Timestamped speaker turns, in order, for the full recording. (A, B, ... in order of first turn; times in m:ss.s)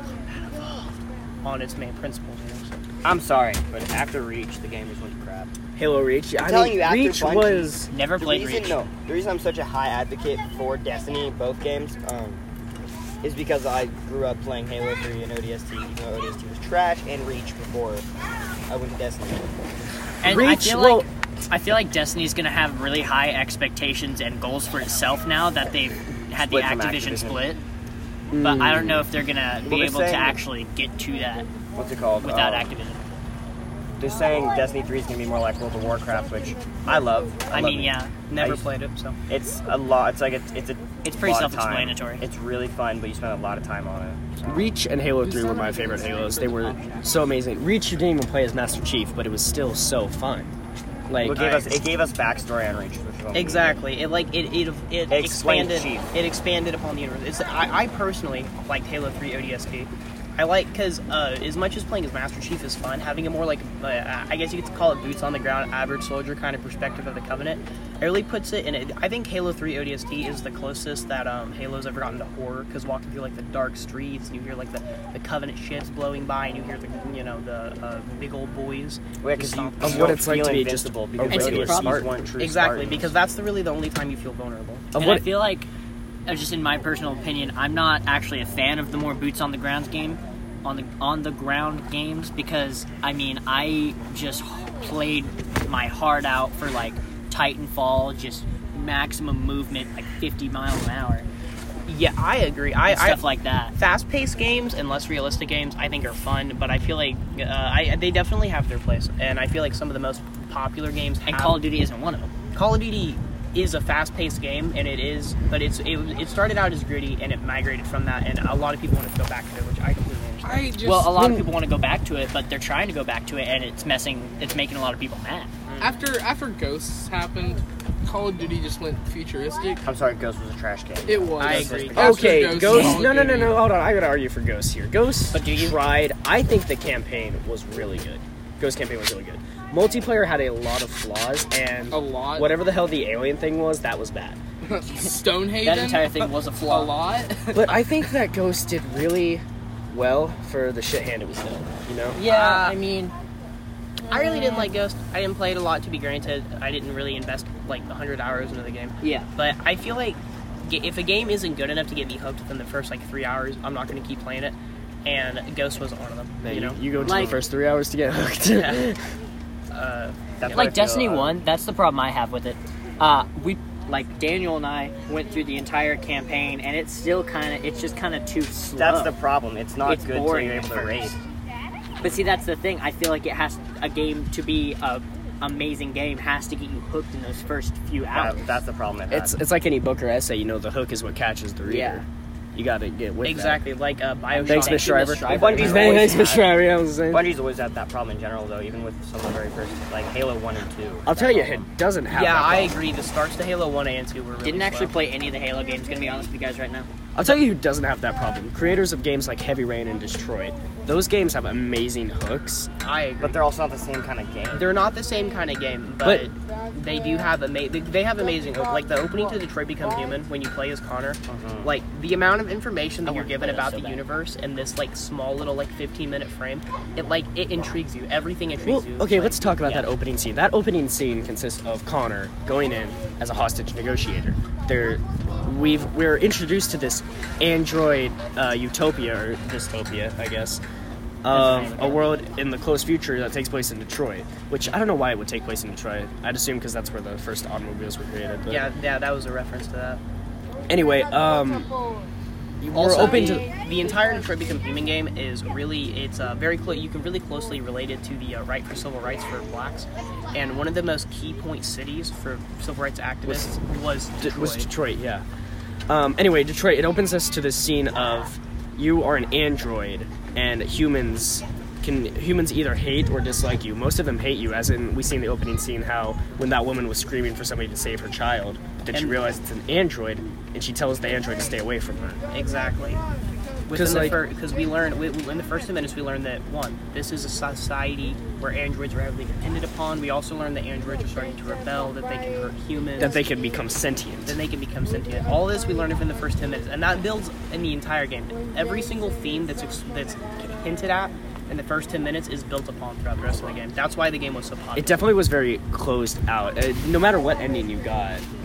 0:00.3-0:00.9 A
0:01.4-0:02.8 A
0:03.0-0:05.5 B
0:05.8-0:07.9 C
0:06.4-0:12.4 B
0:07.9-0:08.8 D
0:13.2-0:18.0 B
0:18.7-0:19.5 B
0:20.2-0:27.6 D
0:20.2-0:21.1 C
0:26.4-0:27.4 B
0:28.3-0:29.1 C
0:28.4-0:31.5 D
0:29.6-0:30.4 B
0:31.8-0:32.7 B
0:32.2-0:33.0 D
0:34.0-0:38.6 B
0:37.5-0:38.1 D
0:38.3-0:39.2 A
0:39.3-0:44.7 B
0:41.0-0:42.2 D
0:44.4-0:50.5 C
0:45.2-0:47.2 E
0:51.1-0:51.6 C
0:51.2-0:53.8 B
0:53.3-1:20.2 A
0:55.1-0:56.1 B
1:19.2-1:23.1 B
1:19.8-1:22.1 C
1:21.2-1:22.0 D
1:22.4-1:24.8 A
1:24.9-1:25.3 C
1:24.9-1:25.7 D
1:26.3-1:41.2 D
1:41.9-1:43.2 A
1:42.9-1:43.7 D
1:43.8-1:51.6 A
1:51.2-1:52.3 D
1:52.5-2:00.8 A
2:00.4-2:01.2 E
2:00.8-2:05.5 D
2:01.1-2:01.5 C
2:05.7-2:06.0 A
2:05.8-2:09.8 E
2:09.8-2:12.3 B
2:11.0-2:13.6 E
2:11.4-2:12.3 A
2:11.9-2:24.4 C
2:15.3-2:15.8 D
2:21.9-2:22.6 E
2:24.6-2:27.8 E
2:25.6-2:27.0 D
2:27.5-2:32.2 C
2:32.1-2:33.1 D
2:32.2-2:32.8 A
2:34.1-2:46.8 A
2:39.0-2:39.3 D
2:46.4-2:49.0 C
2:46.9-2:47.4 B
2:47.0-2:47.4 D
2:48.6-2:48.9 A
2:49.7-2:50.7 A
2:50.4-2:51.4 B
2:50.5-2:59.1 D
2:58.7-3:01.2 B
2:59.8-3:01.1 D
3:02.0-3:08.5 D
3:08.1-3:09.3 B
3:09.1-3:13.6 C
3:11.7-3:12.0 B
3:11.7-3:12.0 D
3:13.2-3:16.3 A
3:14.4-3:17.3 C
3:14.4-3:15.6 D
3:15.2-3:16.5 B
3:17.1-3:21.6 B
3:21.0-3:22.8 C
3:22.1-3:24.9 A
3:24.4-3:26.9 D
3:27.1-3:32.7 C
3:32.8-3:33.4 A
3:33.2-3:34.7 B
3:34.5-3:49.9 A
3:36.0-3:36.3 C
3:41.3-3:41.7 B
3:43.0-3:44.0 D
3:48.6-4:00.6 C
4:01.2-4:08.6 C
4:01.3-4:02.1 D
4:08.5-4:10.0 A
4:10.7-4:11.7 C
4:12.6-4:13.4 C
4:12.7-4:24.7 A
4:23.2-4:23.6 C
4:24.2-4:25.2 C
4:25.9-4:42.2 C
4:38.9-4:39.2 A
4:42.3-4:43.0 A
4:43.7-4:53.2 A
4:43.7-4:44.2 C
4:53.0-4:54.4 C
4:54.2-5:05.0 A
5:04.7-5:08.2 C